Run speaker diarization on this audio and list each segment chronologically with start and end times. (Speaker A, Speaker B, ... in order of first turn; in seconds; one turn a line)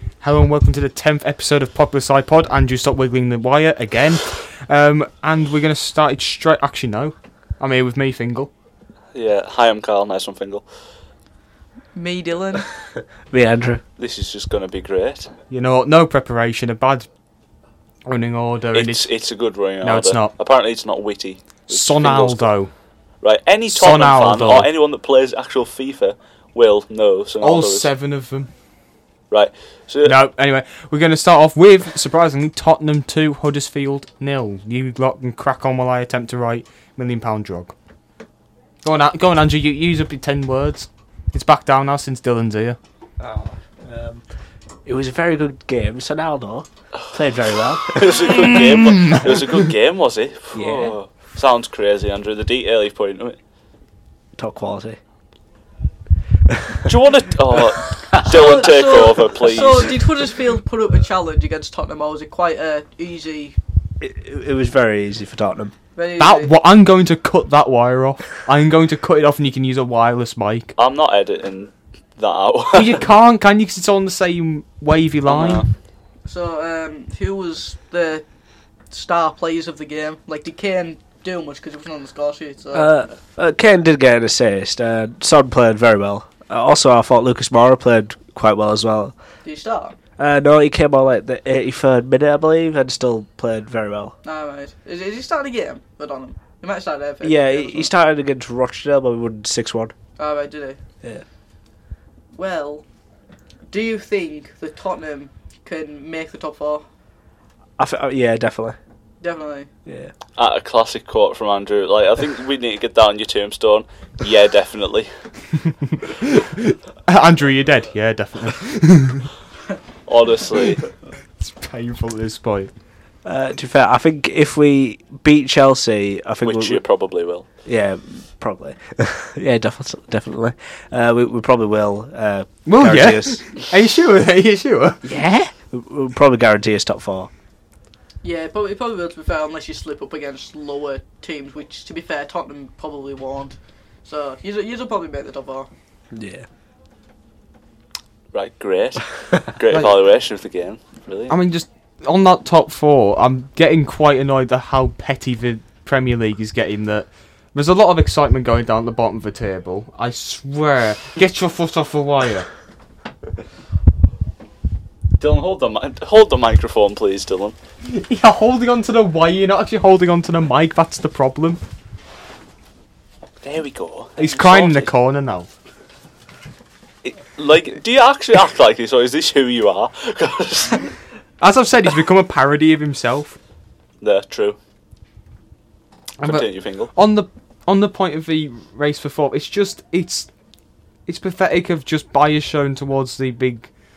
Speaker A: 0.2-8.5
Speaker B: 9.1-10.6
Speaker C: 11.9-12.7
Speaker D: 13.3-13.8
Speaker B: 14.0-15.3
Speaker A: 15.5-17.1
Speaker A: 18.1-19.1
Speaker B: 18.7-22.5
Speaker A: 19.8-20.3
Speaker A: 21.7-22.7
Speaker B: 23.2-27.9
Speaker A: 23.7-24.7
Speaker A: 27.4-28.5
Speaker B: 29.3-30.2
Speaker A: 30.0-37.7
Speaker A: 38.8-42.8
Speaker D: 43.2-44.2
Speaker D: 44.8-48.6
Speaker B: 47.9-53.4
Speaker A: 48.5-49.6
Speaker D: 50.5-51.0
Speaker D: 54.4-55.0
Speaker B: 56.9-60.1
Speaker D: 58.0-58.6
Speaker C: 58.2-63.5
Speaker D: 64.0-65.7
Speaker C: 66.0-66.5
Speaker A: 66.2-70.7
Speaker B: 70.8-73.0
Speaker A: 72.7-75.6
Speaker B: 75.3-75.7
Speaker C: 76.2-78.2
Speaker C: 78.9-82.9
Speaker D: 82.7-89.1
Speaker C: 89.4-90.0
Speaker D: 90.2-94.2
Speaker C: 94.2-97.9
Speaker D: 97.2-99.9
Speaker C: 100.2-100.8
Speaker C: 102.3-102.8
Speaker C: 103.7-106.8
Speaker D: 107.8-108.8
Speaker C: 109.2-109.7
Speaker D: 109.8-110.1
Speaker B: 110.3-115.1
Speaker A: 115.7-119.3
Speaker B: 120.1-121.0
Speaker A: 121.4-122.7
Speaker D: 123.2-126.8
Speaker B: 126.4-127.4
Speaker D: 127.6-133.5
Speaker A: 132.7-135.2
Speaker D: 135.0-137.3
Speaker C: 138.2-145.7
Speaker D: 146.1-146.5
Speaker B: 148.3-151.3
Speaker A: 151.3-162.5
Speaker B: 165.2-167.6
Speaker A: 167.8-171.6
Speaker B: 173.4-174.9
Speaker A: 174.2-175.5
Speaker B: 177.0-180.9
Speaker A: 181.4-183.4
Speaker B: 184.0-184.6
Speaker A: 186.2-190.3
Speaker B: 186.2-186.9
Speaker A: 191.1-193.7